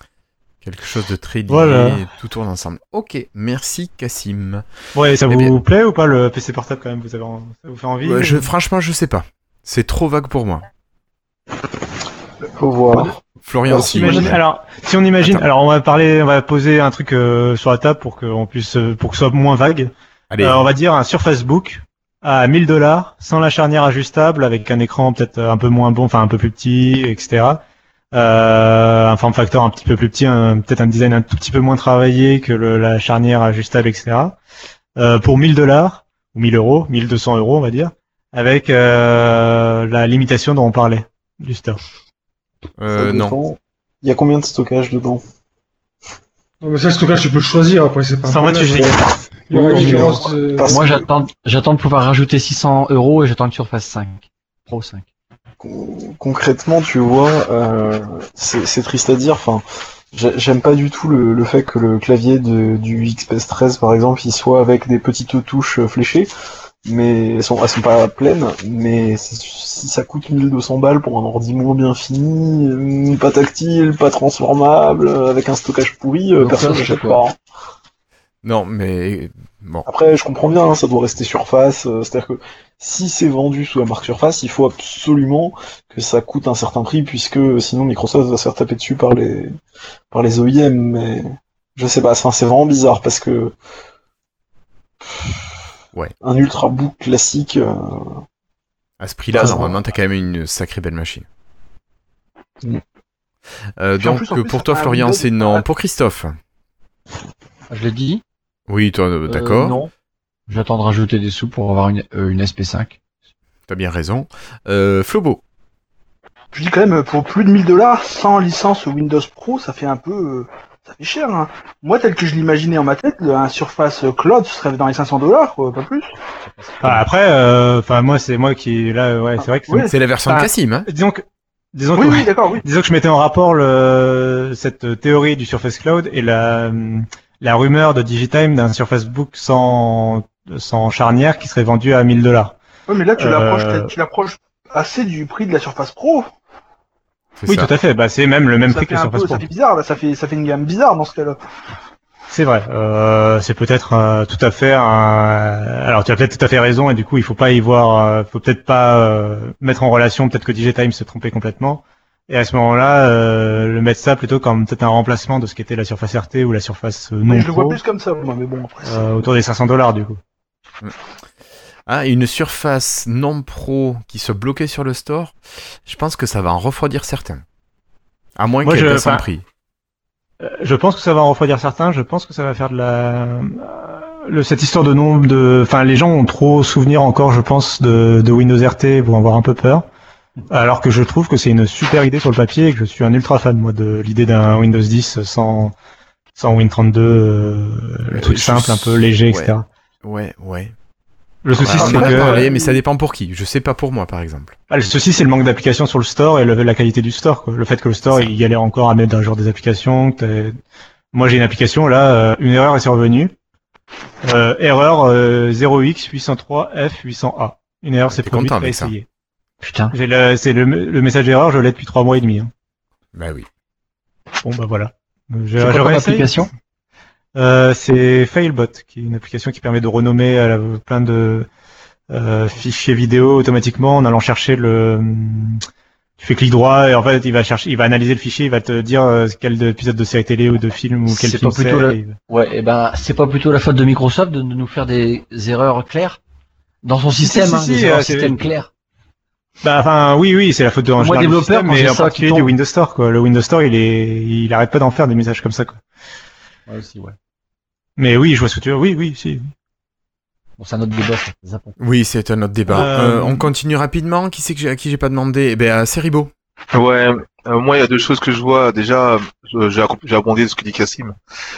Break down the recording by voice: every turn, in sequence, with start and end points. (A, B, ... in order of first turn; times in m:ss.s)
0:00.6-0:04.7 A
0:01.5-0:02.0 B
0:04.9-0:08.5 B
0:05.3-0:05.6 A
0:08.0-0:10.7 A
0:12.6-0:14.3 C
0:13.2-0:14.4 A
0:13.8-0:27.6 B
0:20.3-0:20.6 A
0:28.1-0:34.4 B
0:35.0-0:41.8 B
0:42.8-0:43.4 A
0:42.9-0:45.2 C
0:46.6-0:48.9 D
0:48.2-0:49.2 B
0:49.5-0:50.8 D
0:49.5-0:51.0 C
0:49.7-0:50.1 E
0:50.6-0:55.0 E
0:55.6-1:06.3 C
1:06.8-1:17.3 C
1:16.4-1:17.2 E
1:18.4-1:19.9 A
1:19.8-1:29.5 C
1:30.1-1:33.5 C
1:36.2-1:38.1 C
1:39.0-1:41.2 A
1:43.8-1:46.4 A
1:44.0-1:45.6 F
1:47.7-1:48.2 E
1:48.7-1:49.8 A
1:49.3-1:49.9 E
1:50.5-1:53.0 E
1:53.7-1:55.4 A
1:56.5-2:06.1 F
2:06.4-2:07.0 E
2:06.8-2:11.2 B
2:09.6-2:09.9 F
2:09.8-2:10.9 A
2:11.7-2:22.6 B
2:11.9-2:12.6 F
2:22.9-2:26.3 F
2:23.2-2:23.9 B
2:27.4-2:27.7 A
2:27.5-2:29.4 B
2:28.6-2:31.4 F
2:32.3-2:47.8 B
2:47.2-2:49.2 F
2:48.8-2:50.2 B
2:51.8-2:57.4 A
2:58.4-2:59.4 A
2:58.6-2:59.3 B
3:00.4-3:09.8 B
3:10.5-3:15.7 B
3:16.4-3:19.6 B
3:18.1-3:19.5 A
3:20.0-3:20.7 A
3:21.4-3:22.5 B
3:21.6-3:24.6 A
3:24.7-3:30.6 B
3:31.1-3:33.3 B
3:34.2-3:39.0 B
3:38.1-3:38.9 A
3:39.6-3:39.9 E
3:39.9-3:42.5 B
3:43.1-3:43.5 A
3:44.4-3:46.4 B
3:45.6-3:46.5 E
3:47.4-3:51.5 B
3:52.1-3:55.6 B
3:56.2-4:02.2 B
4:01.1-4:06.2 E
4:06.8-4:08.7 E
4:07.2-4:08.4 B
4:09.6-4:15.8 B
4:11.0-4:12.5 E
4:16.7-4:17.2 E
4:18.0-4:19.5 B
4:20.6-4:21.8 E
4:21.8-4:26.3 A
4:22.7-4:23.5 B
4:26.7-4:31.1 G